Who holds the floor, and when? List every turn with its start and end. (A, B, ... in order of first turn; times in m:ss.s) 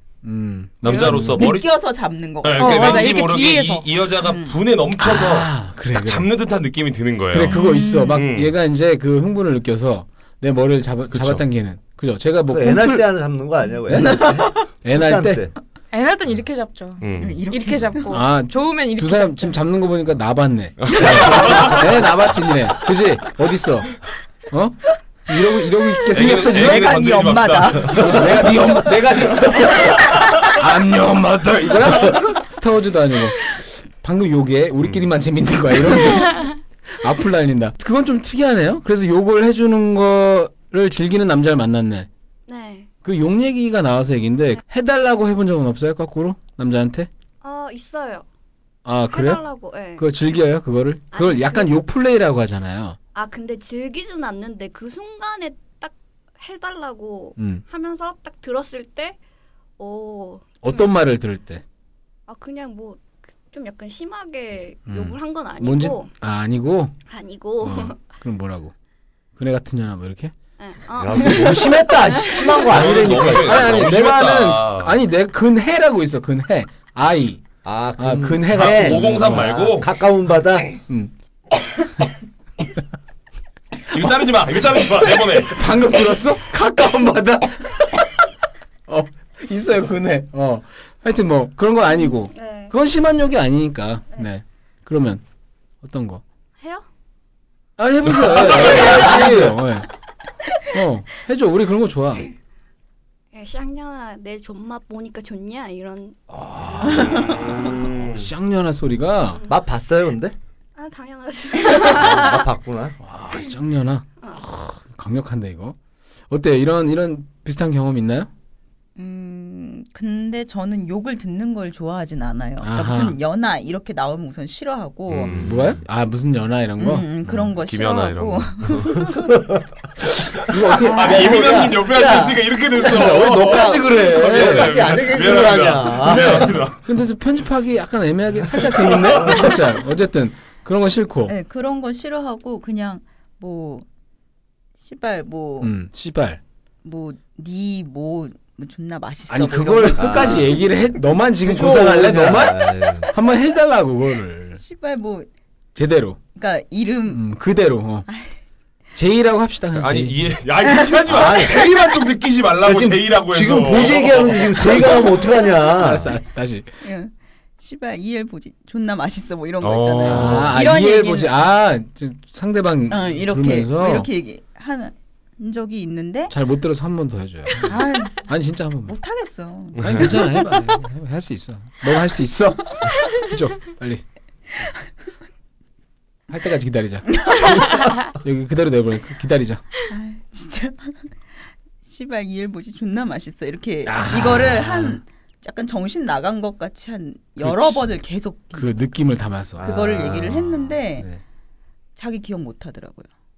0:00.2-0:01.6 A
0:00.8-0:01.7 B
0:01.0-0:03.3 C
0:02.4-0:08.5 B
0:02.6-0:03.9 D
0:04.2-0:04.6 C
0:05.0-0:06.3 A
0:07.3-0:13.0 A
0:07.5-0:08.2 C
0:11.1-0:11.4 B
0:12.5-0:15.5 E
0:13.9-0:14.2 A
0:14.0-0:14.6 C
0:14.8-0:15.4 A
0:15.9-0:19.6 D
0:17.0-0:17.4 B
0:17.2-0:18.0 C
0:18.1-0:24.0 A
0:20.8-0:21.9 B
0:24.5-0:27.1 A
0:26.1-0:28.5 B
0:26.1-0:28.6 C
0:27.9-0:42.1 A
0:42.5-0:42.9 F
0:43.0-0:47.1 A
0:47.4-0:48.3 F
0:48.8-0:49.4 A
0:49.1-0:50.1 F
0:50.0-0:53.0 A
0:51.1-0:51.7 F
0:53.1-0:59.2 F
0:57.4-0:57.6 A
0:59.8-1:00.9 F
1:00.6-1:01.6 A
1:02.3-1:06.1 F
1:04.9-1:06.9 A
1:07.1-1:08.0 F
1:07.6-1:08.7 A
1:09.4-1:10.3 A
1:10.6-1:12.8 F
1:11.0-1:13.7 E
1:12.6-1:15.0 B
1:13.3-1:19.6 A
1:17.6-1:20.8 E
1:18.5-1:19.9 B
1:23.9-1:25.6 B
1:25.4-1:28.1 A
1:28.9-1:35.2 A
1:32.0-1:32.7 F
1:35.8-1:36.2 A
1:36.6-1:36.8 F
1:37.8-1:39.9 A
1:38.3-1:39.6 E
1:38.4-1:39.4 F
1:40.7-1:42.2 A
1:43.3-1:46.2 F
1:46.4-1:47.1 E
1:46.9-1:47.2 A
1:47.0-1:48.2 B
1:48.0-1:49.4 A
1:49.3-1:49.6 F
1:49.5-1:50.3 E
1:50.8-1:52.5 F
1:51.7-1:53.0 E
1:53.0-1:55.8 A
1:56.3-1:58.3 A
1:59.0-2:05.3 C
2:02.6-2:03.2 A
2:05.1-2:05.6 B
2:05.3-2:05.7 E
2:05.4-2:07.1 A
2:06.8-2:09.3 C
2:07.4-2:08.9 B
2:08.9-2:09.6 E
2:10.0-2:16.9 B
2:10.5-2:11.3 A
2:10.8-2:11.3 C
2:10.9-2:12.4 E
2:12.8-2:15.0 A
2:13.0-2:16.6 E
2:16.1-2:21.3 A
2:18.6-2:19.6 B
2:21.3-2:23.9 C
2:24.8-2:25.7 C
2:25.6-2:26.4 A
2:26.8-2:30.6 C
2:29.3-2:34.6 A
2:29.8-2:30.5 E
2:31.4-2:33.1 E
2:34.6-2:35.3 C
2:35.8-2:36.2 A
2:36.4-2:37.2 C
2:37.1-2:38.1 A
2:38.9-2:40.2 A
2:39.7-2:44.9 B
2:40.7-2:41.0 C
2:41.1-2:41.7 E
2:42.6-2:46.1 E
2:45.1-2:45.7 C
2:45.8-2:46.7 A
2:46.8-2:51.4 C
2:49.6-2:50.6 B
2:50.0-2:54.1 A
2:52.9-2:56.3 C
2:56.3-2:58.9 A
2:57.6-2:58.2 C
2:58.9-3:00.8 C
2:59.8-3:04.0 A
3:06.3-3:09.6 A
3:07.2-3:07.9 C
3:09.9-3:11.2 C
3:11.8-3:18.9 C
3:13.9-3:15.0 A
3:17.4-3:18.0 A
3:18.5-3:21.2 A
3:19.6-3:20.3 E
3:19.6-3:21.1 C
3:22.0-3:23.1 C